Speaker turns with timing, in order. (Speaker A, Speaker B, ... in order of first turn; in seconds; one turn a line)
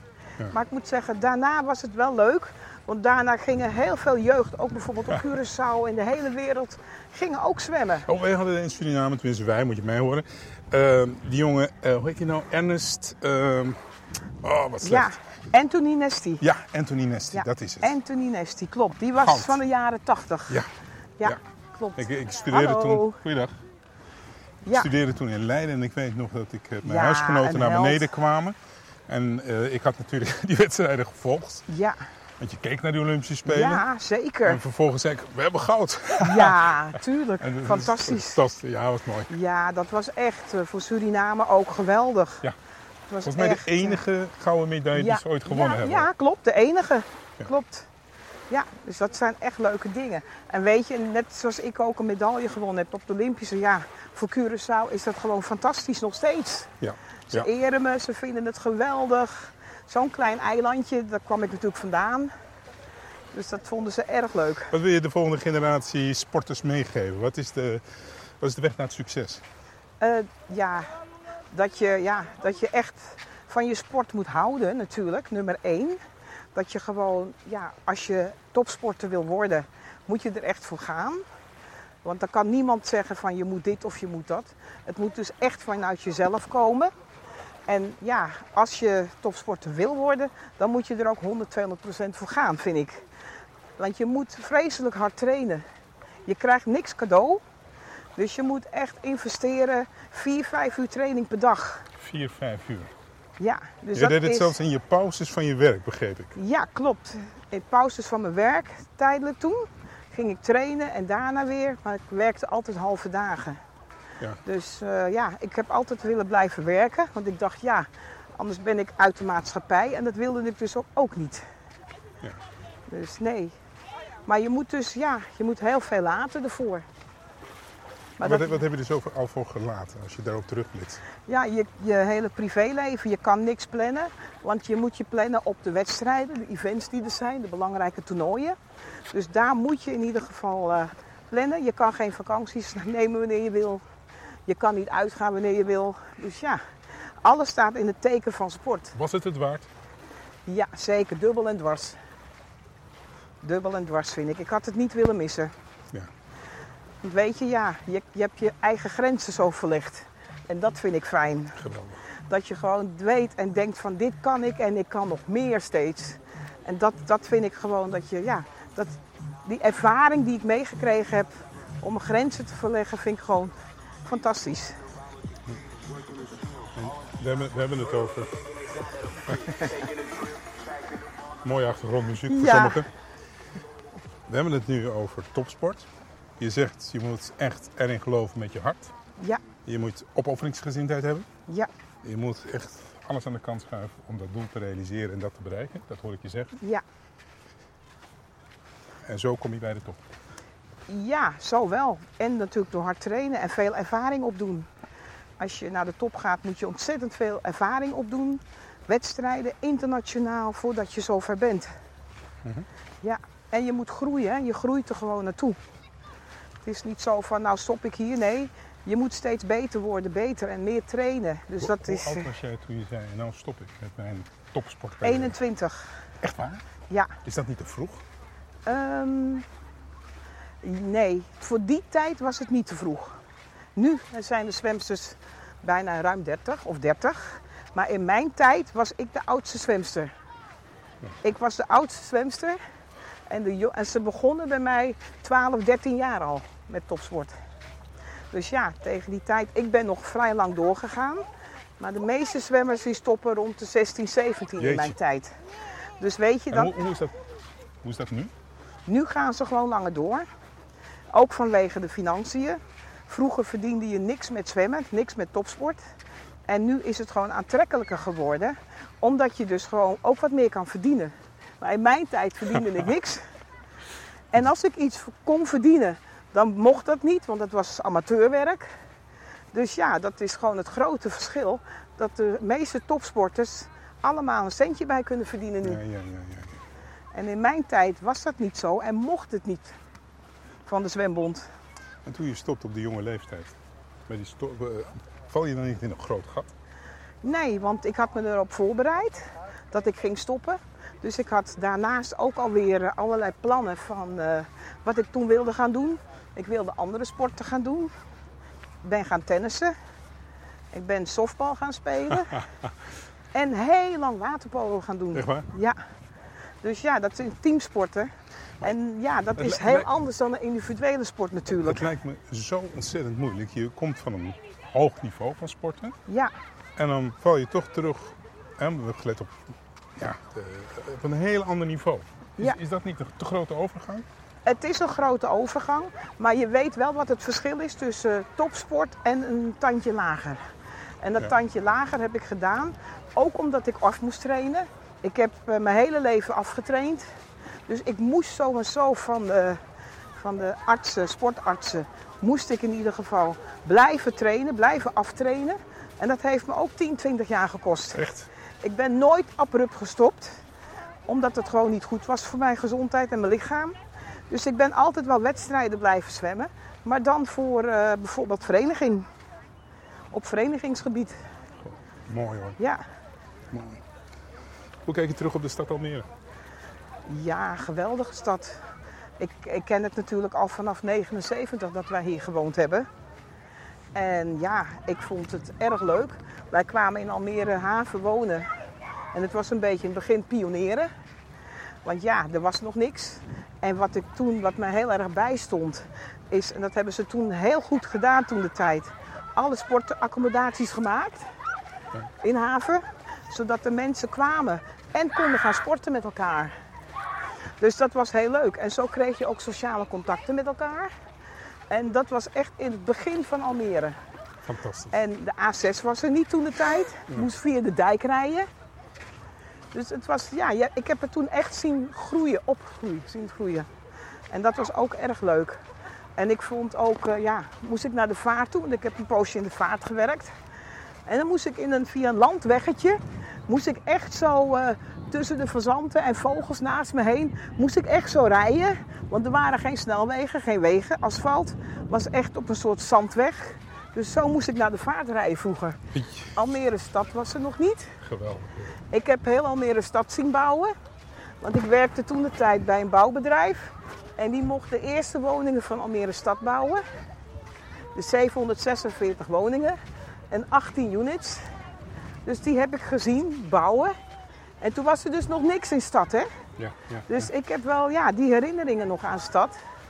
Speaker A: 0.5-8.1
Speaker B: 8.1-13.8
Speaker B: 14.4-15.2
Speaker A: 14.8-16.4
Speaker B: 16.4-18.0
Speaker A: 17.4-20.6
Speaker B: 19.2-19.6
Speaker A: 21.2-23.2
Speaker B: 22.0-23.6
Speaker B: 24.7-31.7
Speaker A: 26.8-28.1
Speaker A: 31.7-32.0
Speaker B: 32.4-33.9
Speaker A: 33.5-34.6
Speaker B: 34.5-36.8
Speaker A: 36.2-38.4
Speaker B: 37.4-39.3
Speaker A: 39.3-42.4
Speaker A: 43.1-44.0
Speaker B: 43.2-46.1
Speaker A: 45.0-47.9
Speaker A: 48.5-56.7
Speaker B: 56.8-57.5
Speaker A: 57.3-62.3
Speaker A: 63.3-64.7
Speaker B: 64.7-69.4
Speaker A: 70.0-70.9
Speaker A: 71.5-76.0
Speaker A: 76.5-81.2
Speaker A: 82.0-86.9
Speaker A: 87.7-93.0
Speaker A: 93.8-95.6
Speaker A: 96.3-97.4
Speaker A: 98.2-101.9
Speaker B: 102.0-102.9
Speaker A: 103.4-104.5
Speaker B: 104.0-106.3
Speaker A: 106.3-113.6
Speaker A: 114.4-121.5
Speaker A: 122.9-123.5
Speaker A: 124.3-126.9
Speaker A: 128.2-128.5
Speaker B: 128.2-131.0
Speaker A: 131.3-138.6
Speaker A: 139.1-143.8
Speaker A: 144.5-146.6
Speaker A: 147.2-148.9
Speaker B: 148.9-149.7
Speaker A: 150.5-152.0
Speaker A: 153.4-155.5
Speaker A: 157.0-161.7
Speaker B: 161.6-162.0
Speaker A: 162.3-174.8
Speaker B: 176.7-178.6
Speaker B: 179.3-179.5
Speaker B: 181.4-182.9
Speaker A: 182.3-182.8
Speaker B: 184.3-188.9
Speaker B: 189.6-191.3
Speaker B: 192.0-196.6
Speaker B: 199.1-200.0
Speaker A: 200.9-204.7
Speaker A: 205.4-211.7
Speaker A: 213.0-215.6
Speaker A: 216.7-222.3
Speaker B: 221.6-225.4
Speaker A: 225.0-225.9
Speaker B: 226.2-226.6
Speaker A: 226.9-227.1
Speaker B: 227.2-228.0
Speaker A: 228.7-229.5
Speaker A: 230.6-233.2
Speaker A: 233.8-240.1
Speaker A: 241.2-242.6
Speaker A: 243.3-247.3
Speaker A: 248.3-251.2
Speaker A: 251.8-255.3
Speaker B: 254.6-255.0
Speaker A: 256.0-256.7
Speaker B: 256.5-257.1
Speaker B: 257.8-258.3
Speaker A: 258.9-260.3
Speaker A: 261.1-265.8
Speaker A: 266.5-273.2
Speaker A: 274.3-278.7
Speaker A: 279.5-285.8
Speaker B: 285.6-286.6
Speaker A: 287.1-289.8
Speaker A: 290.7-291.4
Speaker B: 292.1-293.6
Speaker B: 294.1-296.5
Speaker A: 297.2-307.9
Speaker A: 308.8-309.8
Speaker A: 310.7-312.4
Speaker A: 313.3-315.8
Speaker B: 315.1-315.5
Speaker A: 316.6-321.9
Speaker B: 319.4-319.9
Speaker B: 321.6-326.0
Speaker A: 326.1-326.3
Speaker B: 326.8-329.4
Speaker B: 330.0-334.1
Speaker A: 334.4-340.4
Speaker A: 341.0-347.1
Speaker A: 347.7-349.6
Speaker A: 350.2-358.1
Speaker B: 357.9-358.3
Speaker A: 358.6-360.4
Speaker A: 361.1-363.8
Speaker A: 364.3-369.1
Speaker A: 370.1-371.2
Speaker B: 371.6-372.6
Speaker A: 372.6-372.8
Speaker B: 373.5-373.8
Speaker B: 374.9-376.1
Speaker A: 377.1-378.6
Speaker A: 379.2-382.9
Speaker A: 383.9-388.5
Speaker A: 389.1-390.9
Speaker A: 391.9-401.3
Speaker A: 402.2-406.5
Speaker A: 407.6-410.9
Speaker A: 411.7-413.9
Speaker B: 414.5-414.9
Speaker A: 414.9-418.5
Speaker A: 419.7-423.7
Speaker A: 424.3-425.6
Speaker A: 426.2-430.3
Speaker A: 431.1-445.8
Speaker B: 445.9-446.4
Speaker A: 446.4-447.9
Speaker B: 448.0-448.8
Speaker A: 448.9-450.7
Speaker A: 451.4-456.8
Speaker A: 457.9-459.8
Speaker A: 460.3-461.5
Speaker A: 462.2-463.9
Speaker A: 464.6-466.3
Speaker B: 466.6-467.3
Speaker A: 467.1-469.6